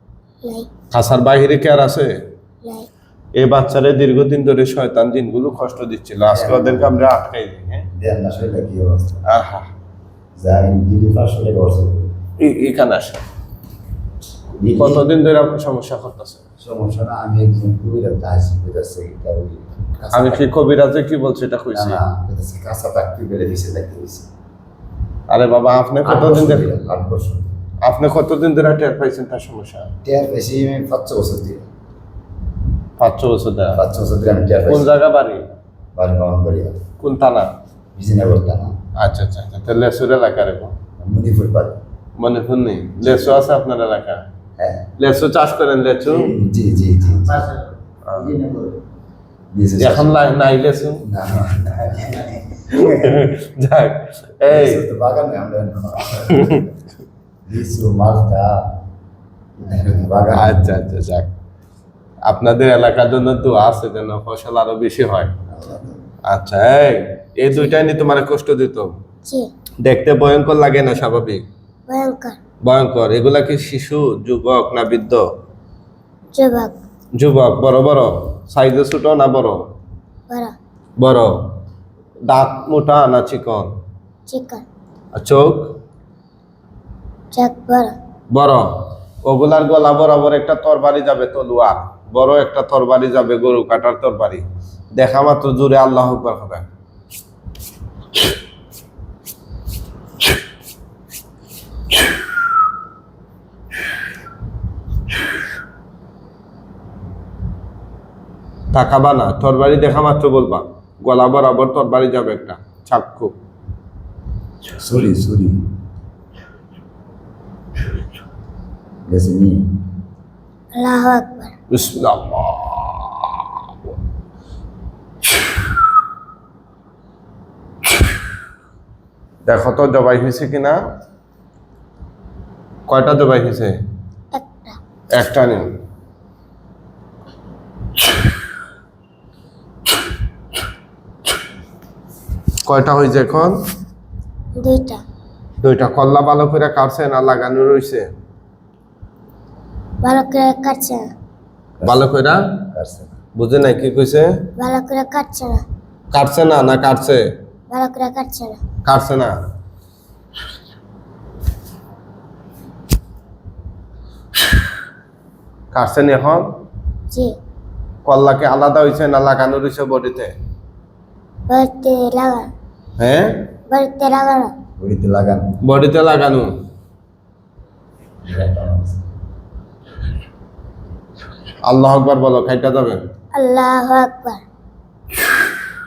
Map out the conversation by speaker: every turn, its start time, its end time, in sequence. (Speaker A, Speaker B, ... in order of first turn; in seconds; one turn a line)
Speaker A: 0.4-0.7
Speaker B: 0.9-2.1
Speaker A: 2.6-2.9
Speaker B: 3.4-7.9
Speaker C: 6.3-7.0
Speaker C: 8.0-9.2
Speaker B: 9.3-9.7
Speaker C: 10.4-12.1
Speaker B: 12.4-13.2
Speaker C: 14.6-15.1
Speaker B: 14.7-16.4
Speaker C: 16.6-20.5
Speaker B: 20.1-22.0
Speaker C: 21.7-24.3
Speaker B: 25.3-26.7
Speaker C: 26.0-27.5
Speaker B: 27.8-29.9
Speaker C: 30.0-31.7
Speaker B: 33.0-33.8
Speaker C: 33.7-34.9
Speaker B: 34.7-35.4
Speaker C: 35.9-36.8
Speaker B: 37.0-37.5
Speaker C: 38.0-38.8
Speaker B: 39.0-40.7
Speaker C: 41.0-41.8
Speaker B: 42.2-44.2
Speaker C: 44.6-44.9
Speaker B: 45.0-46.3
Speaker C: 46.1-48.8
Speaker B: 48.0-48.4
Speaker C: 49.5-50.2
Speaker B: 49.8-51.0
Speaker C: 51.0-53.3
Speaker B: 52.7-54.8
Speaker C: 54.5-56.7
Speaker B: 56.3-56.6
Speaker C: 57.5-58.8
Speaker C: 59.6-60.9
Speaker B: 60.4-61.3
Speaker B: 62.3-65.3
Speaker C: 65.5-66.0
Speaker B: 66.3-68.9
Speaker B: 69.8-71.5
Speaker A: 71.9-72.4
Speaker B: 72.6-75.2
Speaker A: 76.3-76.8
Speaker B: 77.2-79.6
Speaker A: 80.3-80.5
Speaker B: 81.0-81.5
Speaker B: 82.3-83.7
Speaker A: 84.3-84.6
Speaker B: 85.1-85.7
Speaker A: 87.3-87.9
Speaker B: 88.3-94.4
Speaker B: 95.0-96.7
Speaker B: 108.7-113.3
Speaker C: 114.7-115.6
Speaker C: 119.1-119.7
Speaker A: 120.7-121.5
Speaker B: 121.7-123.5
Speaker B: 129.4-130.8
Speaker B: 132.9-133.8
Speaker A: 134.3-134.8
Speaker B: 135.1-135.7
Speaker B: 142.6-143.6
Speaker A: 144.6-145.0
Speaker B: 145.6-148.1
Speaker A: 150.0-151.1
Speaker C: 151.8-152.1
Speaker B: 151.8-152.4
Speaker C: 152.7-153.2
Speaker B: 153.3-154.4
Speaker A: 154.6-155.6
Speaker B: 156.1-157.3
Speaker A: 157.7-158.6
Speaker B: 158.8-159.3
Speaker B: 165.7-166.4
Speaker A: 167.1-167.3
Speaker B: 168.0-170.3
Speaker A: 171.5-172.5
Speaker B: 173.0-173.5
Speaker A: 173.7-174.5
Speaker C: 174.8-175.5
Speaker B: 175.6-176.5
Speaker C: 178.2-179.0
Speaker B: 181.6-183.0
Speaker A: 183.3-184.4